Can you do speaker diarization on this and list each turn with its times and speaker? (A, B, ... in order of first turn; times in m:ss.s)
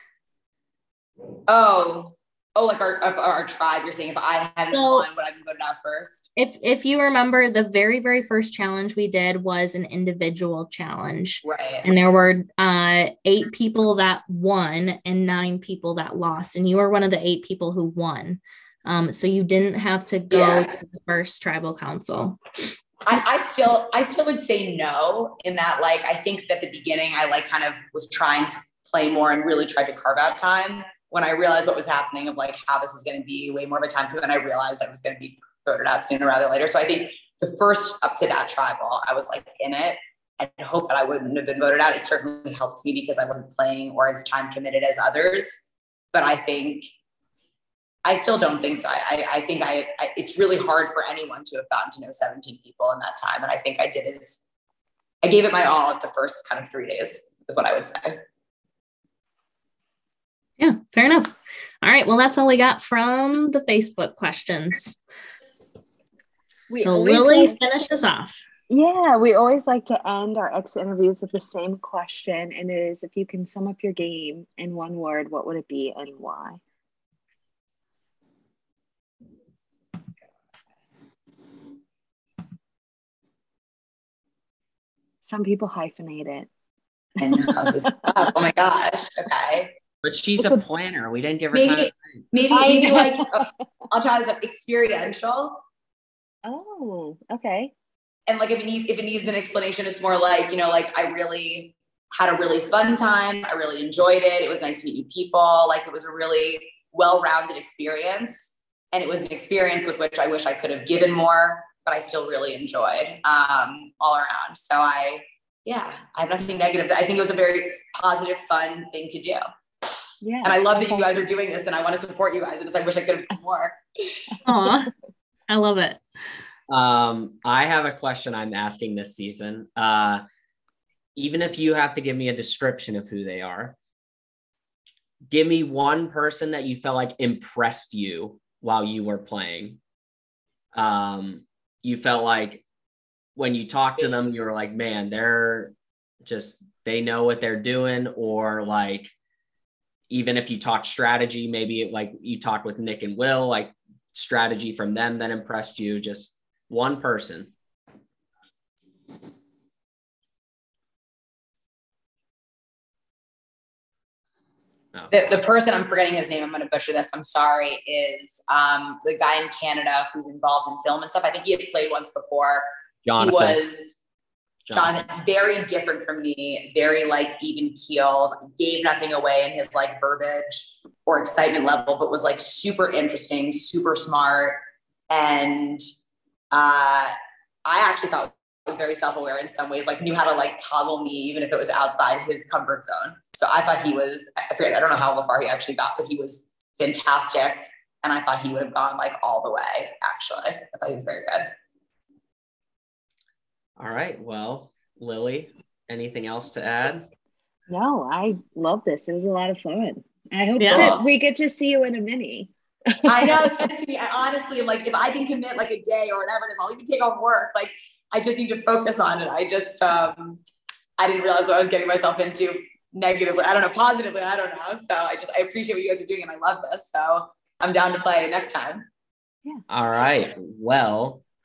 0:01.5-0:06.3 A
0:04.7-0:05.1 B
0:06.4-0:22.4 B
0:11.4-0:11.9 A
0:20.3-0:20.7 A
0:23.1-0:46.9 A
0:48.0-0:54.4 A
0:55.2-0:58.2 A
1:00.6-1:05.0 B
1:06.7-1:07.6 C
1:06.8-1:08.4 B
1:08.7-1:16.6 C
1:25.2-1:26.5 C
1:27.2-1:29.7 A
1:27.6-1:27.9 C
1:30.0-1:32.2 D
1:30.4-1:30.6 C
1:31.5-1:35.6 A
1:32.5-1:33.4 C
1:36.4-1:37.7 C
1:38.3-1:59.4 A
2:00.2-2:01.2 C
2:00.4-2:03.8 A
2:04.4-2:04.9 B
2:05.5-2:06.0 B
2:06.7-2:10.2 D
2:11.1-2:13.8 D
2:15.3-2:19.8 D
2:20.7-2:22.6 D
2:23.4-2:29.1 D
2:30.1-2:37.5 D
2:45.1-2:54.0 A
2:53.0-2:53.6 D
2:54.6-2:55.0 D
2:54.7-3:05.8 A
3:06.5-3:07.1 A
3:07.6-3:21.5 A
3:23.8-3:27.1 D
3:27.7-3:33.5 C
3:30.6-3:30.9 B
3:30.7-3:31.0 A
3:33.1-3:40.4 A
3:41.0-3:48.8 A
3:49.7-3:51.2 D